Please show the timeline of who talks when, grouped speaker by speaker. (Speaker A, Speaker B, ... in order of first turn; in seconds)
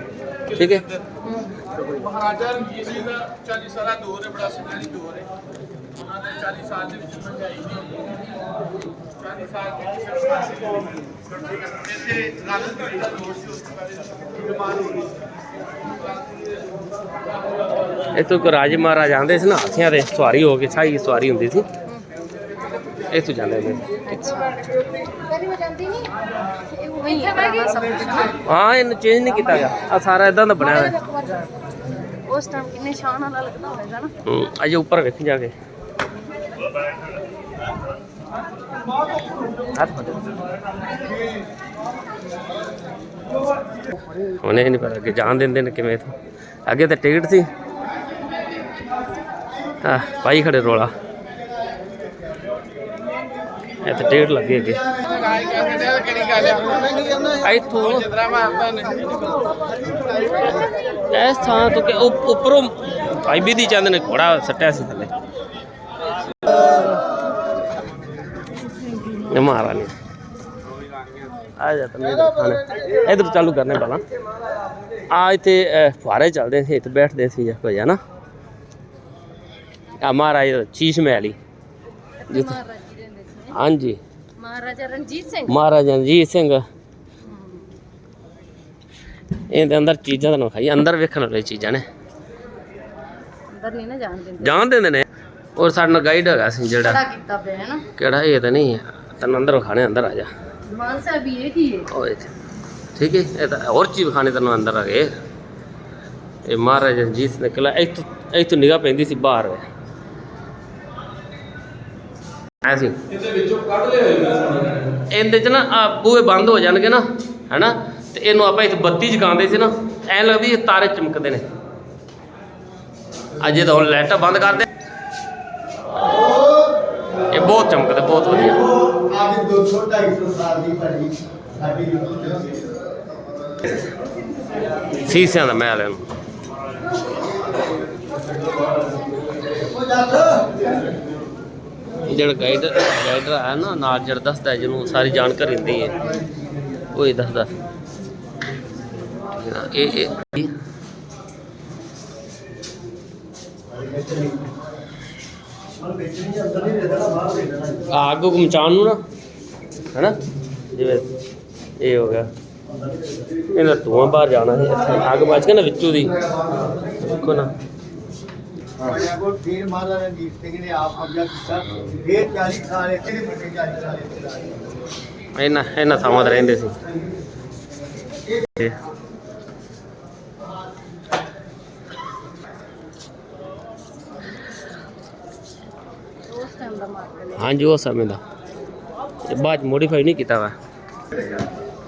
Speaker A: 0.6-0.8, 18.1-21.7, 23.1-23.9, 28.4-30.9, 34.3-35.5, 39.7-40.2, 44.2-46.1, 46.7-47.5, 49.8-50.9, 53.8-54.8, 57.4-58.2, 61.1-65.1, 69.1-69.9, 71.6-74.0, 75.1-78.0, 80.0-81.4, 82.3-82.6, 83.5-84.0, 85.5-86.6, 89.5-91.8, 94.4-95.0, 95.6-97.0, 98.0-100.3, 101.9-102.3, 102.9-105.1, 106.5-109.7, 112.6-112.9, 115.0-121.4, 123.4-124.7, 127.3-128.6, 135.0-136.0, 142.1-145.9, 146.9-147.5, 149.3-150.5, 157.9-159.0, 160.7-161.0, 161.8-162.2, 163.5-166.2, 167.0-167.5, 175.3-176.8, 187.3-188.2, 189.2-190.5
Speaker B: 2.4-5.2, 6.4-7.6, 9.6-9.9, 12.1-13.1
Speaker C: 24.0-26.1, 26.8-28.3, 30.6-31.4, 32.2-34.1, 55.5-57.0, 60.4-60.7, 82.2-83.5, 84.4-85.5, 87.2-87.7, 93.5-94.5, 96.8-97.9, 100.7-101.9, 186.3-187.5
Speaker D: 129.1-132.5, 156.4-157.3, 168.9-174.5